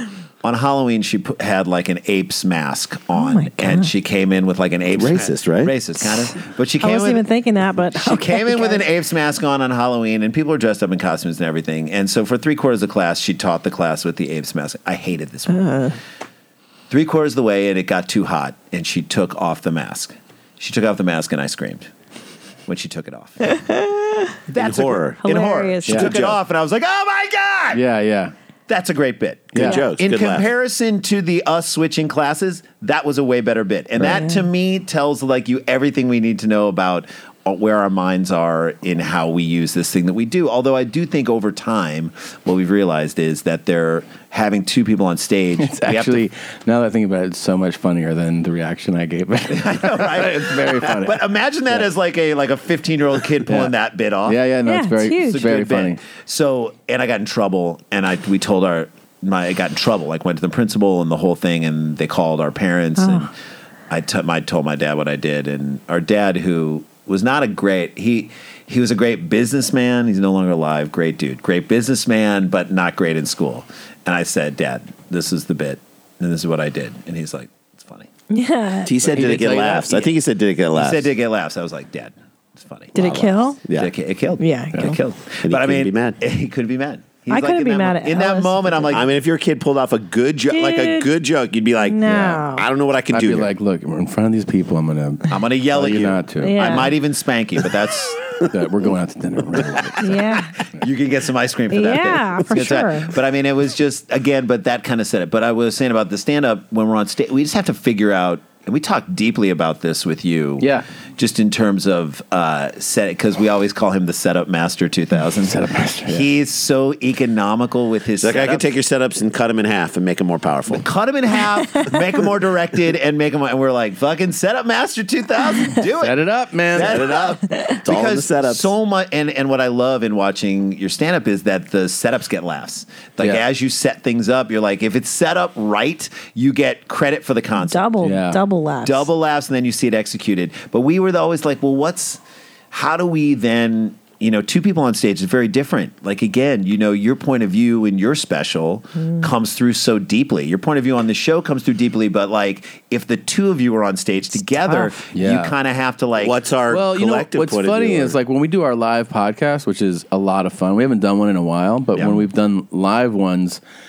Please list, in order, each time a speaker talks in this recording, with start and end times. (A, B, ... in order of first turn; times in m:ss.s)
0:00.4-0:07.3 A
0:03.1-0:03.9 B
0:04.9-0:05.8 C
0:06.8-0:08.9 B
0:07.9-0:15.8 A
0:15.5-0:16.0 B
0:16.9-0:21.9 A
0:22.7-0:23.5 A
0:23.5-0:24.4 B
0:24.5-0:27.8 A
0:24.6-0:25.2 C
0:25.2-0:26.1 B
0:25.9-0:26.4 C
0:27.7-0:28.3 D
0:28.7-0:46.2 A
0:29.6-0:30.5 C
0:34.1-0:34.4 B
0:45.6-0:51.9 D
0:49.5-0:54.4 A
0:53.5-0:53.8 D
0:54.3-0:56.0 D
0:54.6-0:55.5 B
0:55.3-1:03.3 A
1:03.0-1:03.3 B
1:03.9-1:18.1 A
1:18.3-1:18.9 B
1:18.9-1:21.1 C
1:19.0-1:19.6 A
1:19.2-1:20.1 D
1:20.7-1:23.2 A
1:23.0-1:23.6 B
1:23.0-1:23.9 C
1:23.7-1:29.1 A
1:24.4-1:25.0 B
1:25.4-1:26.2 C
1:27.3-1:29.0 B
1:28.9-1:33.5 C
1:30.5-1:31.1 B
1:31.8-1:32.7 B
1:33.1-1:36.8 D
1:35.3-1:38.3 A
1:36.4-1:37.0 B
1:38.5-1:40.2 D
1:40.0-1:40.6 B
1:40.8-1:58.7 A
1:41.7-1:43.2 B
1:50.6-1:50.9 D
1:55.4-1:56.3 D
1:58.2-2:00.8 C
2:00.7-2:06.2 A
2:06.0-2:07.0 D
2:06.7-2:17.9 A
2:06.8-2:08.7 C
2:13.2-2:13.5 D
2:17.6-2:19.1 B
2:18.0-2:18.4 D
2:18.8-2:36.4 A
2:29.0-2:29.3 B
2:34.5-2:34.9 B
2:35.1-2:35.6 D
2:36.2-2:38.2 C
2:36.7-2:43.6 D